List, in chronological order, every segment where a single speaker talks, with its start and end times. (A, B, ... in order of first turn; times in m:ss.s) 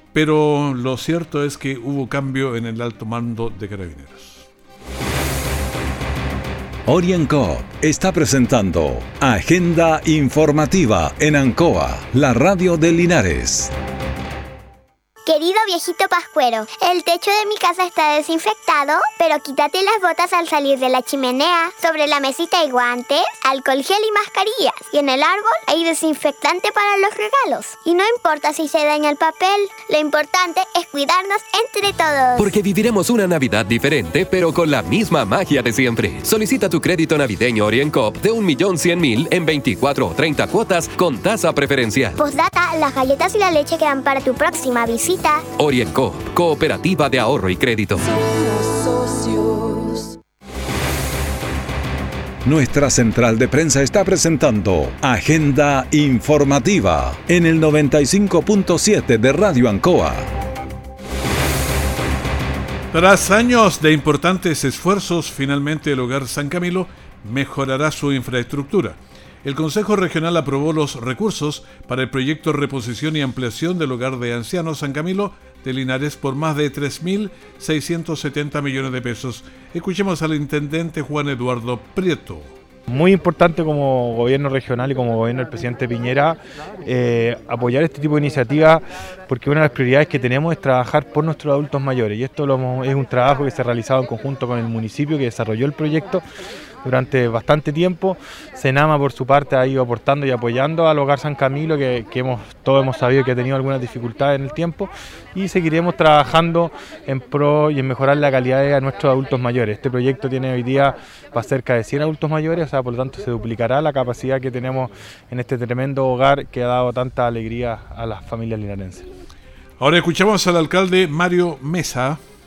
0:00.1-0:04.5 A
0:06.9-0:13.7 B
0:15.2-0:32.5 C
0:32.4-0:42.2 D
0:42.2-0:45.4 C
0:45.6-0:48.0 D
0:52.4-1:00.3 B
1:02.9-1:22.5 A
1:22.9-1:36.2 E
1:36.8-1:59.0 E
1:59.8-2:02.2 A